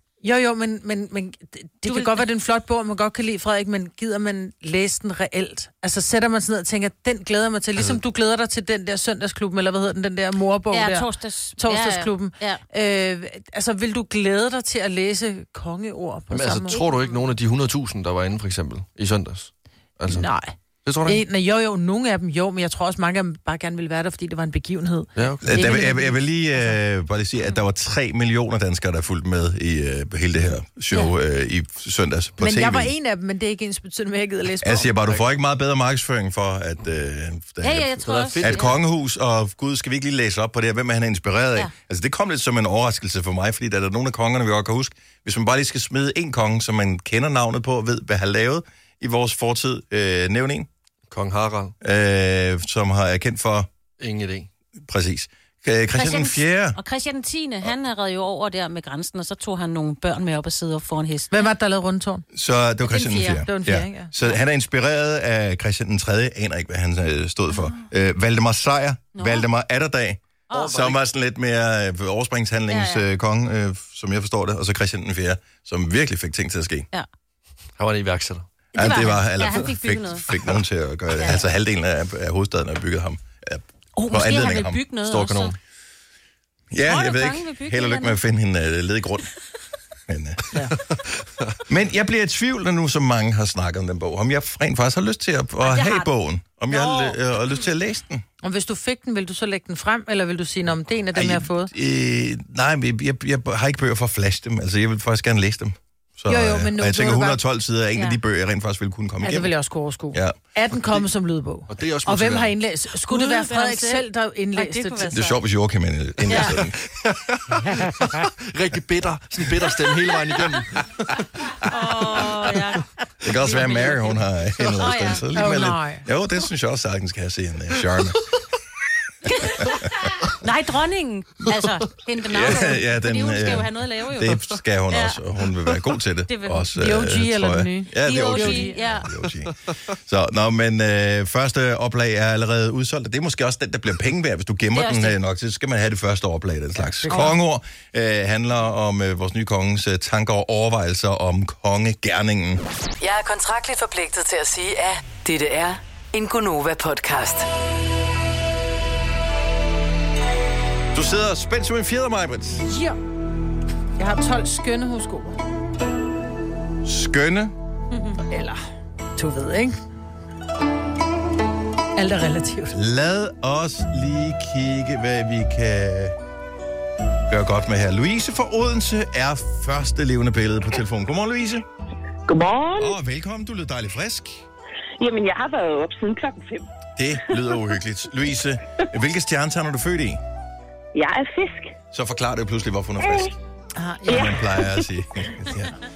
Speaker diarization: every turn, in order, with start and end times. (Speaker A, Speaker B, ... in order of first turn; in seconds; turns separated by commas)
Speaker A: 0.2-16.8, Speaker B: 1.8-2.2, Speaker C: 7.8-8.0, Speaker B: 10.7-12.6, Speaker C: 16.3-20.3, Speaker B: 16.7-17.3, Speaker A: 20.1-26.3, Speaker C: 20.8-21.2, Speaker C: 25.1-25.6, Speaker D: 25.4-32.9, Speaker A: 32.4-34.9, Speaker D: 34.6-50.7, Speaker C: 35.0-35.3, Speaker B: 37.6-38.7, Speaker C: 38.0-38.7, Speaker C: 51.1-51.7, Speaker D: 51.8-53.7, Speaker C: 54.0-54.5, Speaker D: 54.7-56.8, Speaker B: 55.9-61.5, Speaker A: 61.3-62.2, Speaker D: 62.3-76.9, Speaker A: 62.9-64.1, Speaker B: 62.9-63.5, Speaker B: 67.5-67.8, Speaker B: 69.2-69.5, Speaker B: 70.5-70.8, Speaker C: 70.5-71.0, Speaker B: 72.7-73.0, Speaker C: 77.8-78.5, Speaker B: 78.7-80.3, Speaker D: 78.7-84.8, Speaker B: 84.0-85.5, Speaker C: 85.0-85.5, Speaker D: 86.7-89.3, Speaker B: 86.8-88.2, Speaker D: 90.1-90.5, Speaker D: 91.7-98.2, Speaker B: 95.6-96.1, Speaker B: 96.7-97.2, Speaker A: 98.4-101.7, Speaker D: 101.1-109.5, Speaker A: 106.3-107.4, Speaker A: 109.2-115.1, Speaker D: 110.1-110.4, Speaker C: 111.7-112.5, Speaker B: 113.0-115.4, Speaker D: 115.1-116.7, Speaker C: 116.2-121.1, Speaker B: 116.3-116.6, Speaker B: 121.6-124.2, Speaker D: 123.2-128.2, Speaker B: 124.8-125.3, Speaker A: 125.3-126.0, Speaker B: 129.3-135.2, Speaker D: 132.3-152.6, Speaker B: 136.3-136.7, Speaker A: 136.8-138.8, Speaker B: 138.0-139.1, Speaker B: 144.7-145.2, Speaker A: 147.0-147.3, Speaker E: 153.0-157.5, Speaker D: 160.9-162.7, Speaker A: 162.6-163.0, Speaker A: 164.0-165.4, Speaker D: 166.8-167.5, Speaker B: 167.9-168.2, Speaker A: 168.3-168.6, Speaker A: 169.2-169.8, Speaker A: 171.9-172.8, Speaker D: 172.7-176.2, Speaker D: 177.3-181.6, Speaker F: 182.3-182.9, Speaker D: 182.8-184.4, Speaker F: 185.0-186.7, Speaker D: 187.0-190.2, Speaker F: 190.9-191.7, Speaker D: 191.9-193.3, Speaker F: 193.0-193.3, Speaker A: 193.8-194.4, Speaker D: 194.1-195.8, Speaker F: 194.1-194.7